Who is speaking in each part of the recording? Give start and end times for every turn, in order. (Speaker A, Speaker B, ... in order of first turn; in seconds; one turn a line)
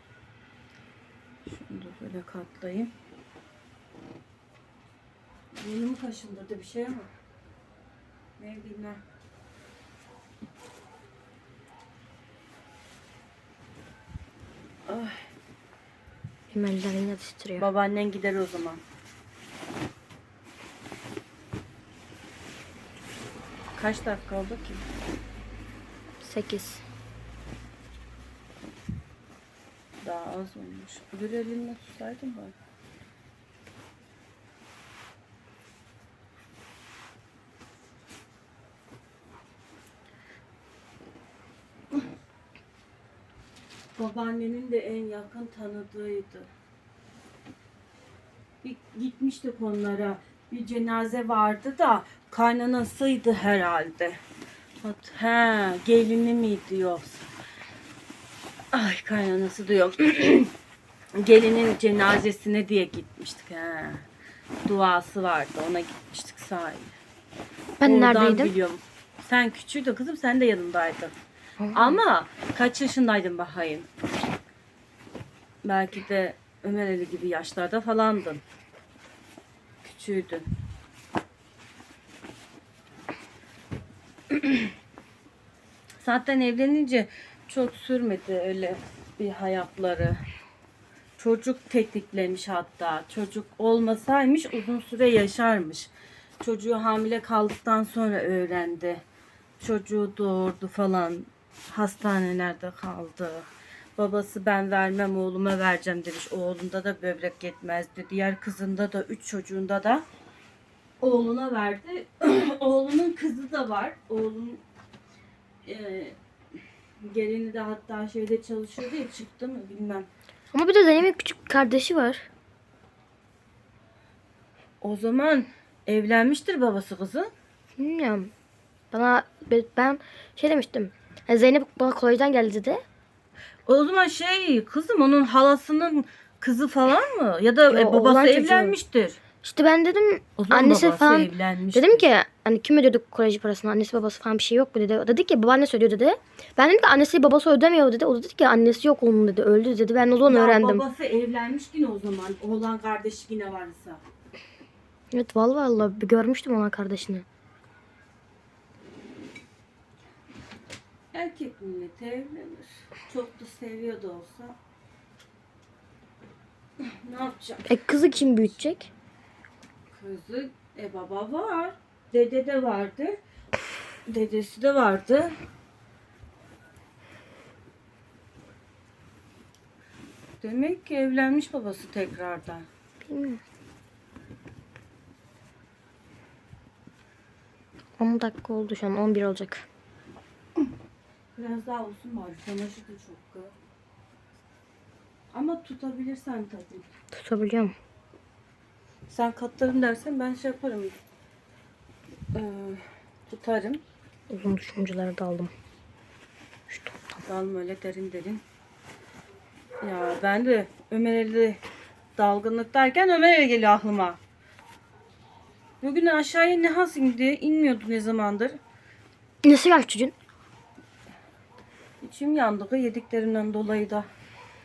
Speaker A: 1.4-2.9
Speaker A: 5.5-7.1
Speaker A: 8.4-9.0
Speaker A: 14.9-15.3
Speaker B: 16.5-17.6
Speaker A: 17.6-18.8
Speaker A: 23.8-24.8
Speaker B: 26.2-26.8
Speaker A: 30.0-32.5
Speaker A: 44.0-46.5
Speaker A: 48.6-54.2
Speaker A: 54.8-57.3
Speaker A: 58.7-60.5
Speaker A: 61.2-64.1
Speaker A: 64.7-66.9
Speaker B: 67.8-68.5
Speaker A: 67.8-71.1
Speaker B: 71.6-72.0
Speaker A: 71.7-73.9
Speaker A: 75.6-78.4
Speaker A: 79.8-80.5
Speaker A: 84.3-84.6
Speaker A: 86.0-90.2
Speaker A: 91.2-95.9
Speaker A: 96.4-99.0
Speaker A: 99.6-110.0
Speaker A: 111.0-114.6
Speaker A: 115.6-116.2
Speaker A: 117.0-120.1
Speaker B: 120.5-122.3
Speaker A: 124.8-127.3
Speaker B: 127.8-128.3
Speaker B: 128.9-132.8
Speaker A: 133.7-139.2
Speaker B: 137.7-138.8
Speaker B: 139.4-150.8
Speaker A: 140.4-142.1
Speaker A: 150.2-154.0
Speaker B: 155.1-157.2
Speaker A: 161.1-164.6
Speaker A: 166.8-168.6
Speaker B: 167.7-168.9
Speaker A: 169.9-173.2
Speaker A: 174.1-175.3
Speaker A: 180.4-182.7
Speaker B: 183.1-183.4
Speaker B: 188.0-189.7
Speaker A: 191.3-193.6
Speaker A: 195.3-196.9
Speaker B: 197.1-197.7
Speaker A: 199.1-201.0
Speaker A: 202.3-203.8
Speaker B: 204.3-205.5
Speaker B: 206.7-207.2
Speaker A: 207.2-208.4
Speaker A: 209.8-211.6
Speaker A: 212.2-214.2
Speaker A: 215.8-218.6
Speaker B: 219.4-220.1
Speaker A: 222.0-224.1